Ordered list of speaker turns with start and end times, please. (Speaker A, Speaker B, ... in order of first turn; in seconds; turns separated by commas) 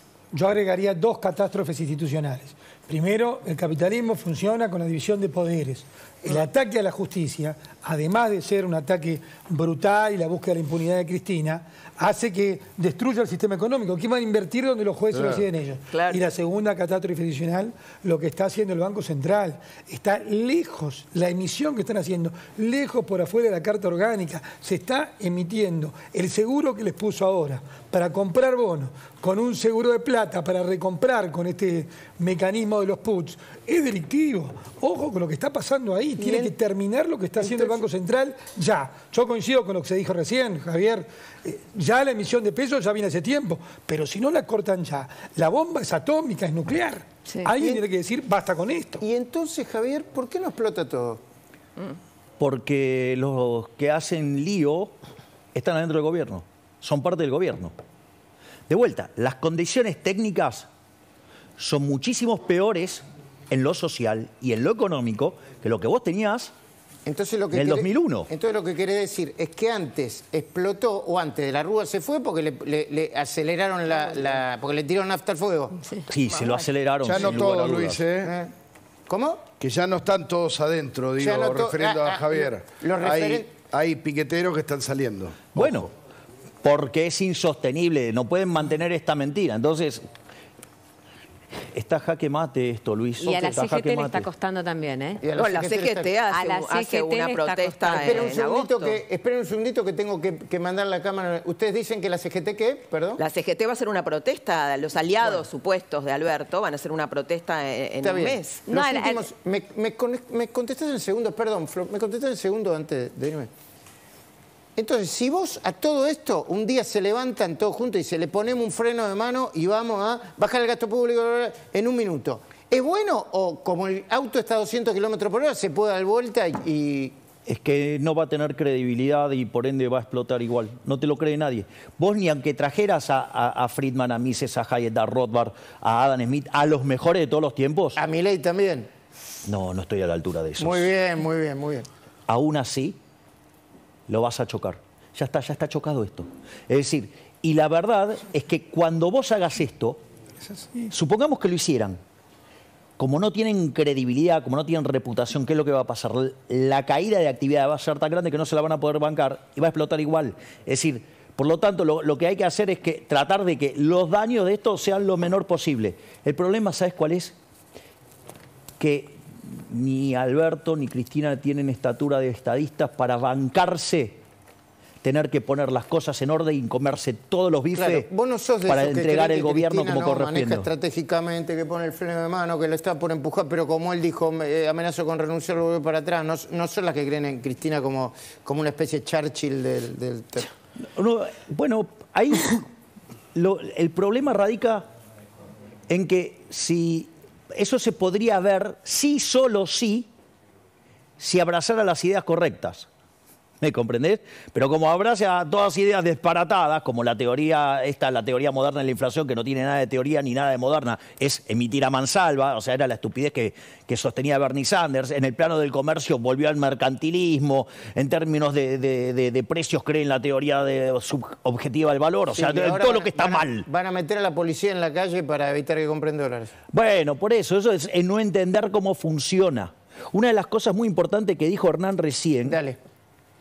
Speaker A: 0.3-49.0, Speaker B: 15.9-16.2, Speaker C: 36.2-36.5, Speaker C: 37.4-37.8, Speaker C: 49.0-51.2, Speaker D: 52.4-54.9, Speaker D: 55.5-57.7, Speaker D: 58.7-60.7, Speaker D: 61.6-66.5, Speaker C: 67.1-76.0, Speaker D: 67.5-68.3, Speaker D: 76.1-78.0, Speaker E: 77.0-78.3, Speaker C: 78.2-78.5, Speaker C: 79.1-79.4, Speaker E: 79.6-85.7, Speaker C: 81.2-83.5, Speaker D: 85.5-85.9, Speaker D: 86.6-90.0, Speaker D: 91.7-94.3, Speaker F: 93.2-95.3, Speaker C: 95.2-96.1, Speaker B: 95.3-99.0, Speaker F: 96.3-98.4, Speaker C: 98.0-103.2, Speaker B: 103.2-108.8, Speaker C: 108.0-113.5, Speaker F: 108.8-109.3, Speaker C: 114.8-127.1, Speaker D: 127.5-138.0, Speaker C: 138.0-138.9, Speaker D: 139.5-140.9, Speaker C: 140.6-141.9, Speaker D: 142.3-143.0, Speaker D: 144.1-150.0, Speaker D: 150.9-152.0, Speaker D: 153.0-167.3, Speaker D: 168.8-174.2, Speaker D: 175.0-178.1, Speaker C: 177.7-190.5, Speaker D: 178.7-180.7, Speaker D: 191.0-192.7, Speaker D: 193.3-194.9, Speaker D: 195.9-200.1, Speaker D: 201.2-202.9, Speaker D: 203.6-223.7, Speaker C: 222.3-226.5, Speaker D: 226.7-232.6, Speaker C: 232.5-232.8